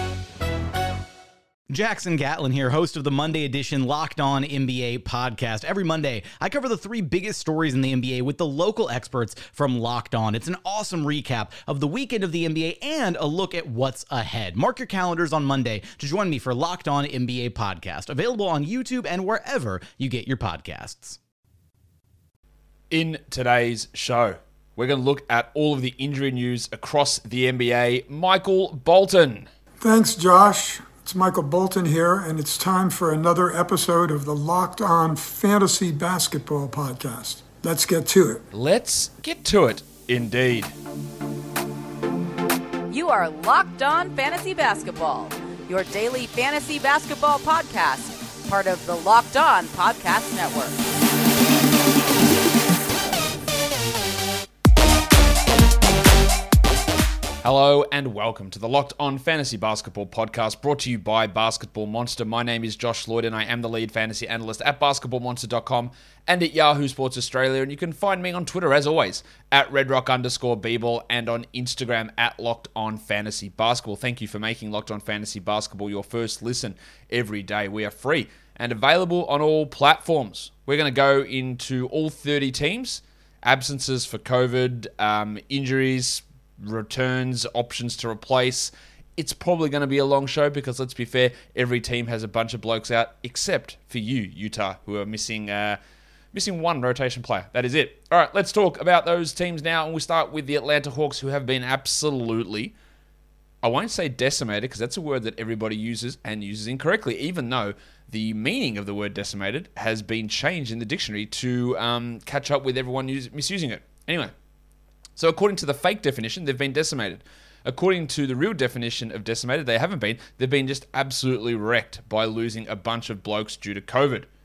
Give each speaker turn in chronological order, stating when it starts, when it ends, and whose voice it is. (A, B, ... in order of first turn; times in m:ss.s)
0:01.7-0:21.2 A
0:22.9-0:29.5 B
0:29.8-0:38.4 C
0:38.5-0:40.7 B
0:42.9-0:50.8 D
0:57.4-1:35.8 B
1:36.3-1:42.7 B
1:43.6-1:54.3 B
1:55.2-2:04.3 B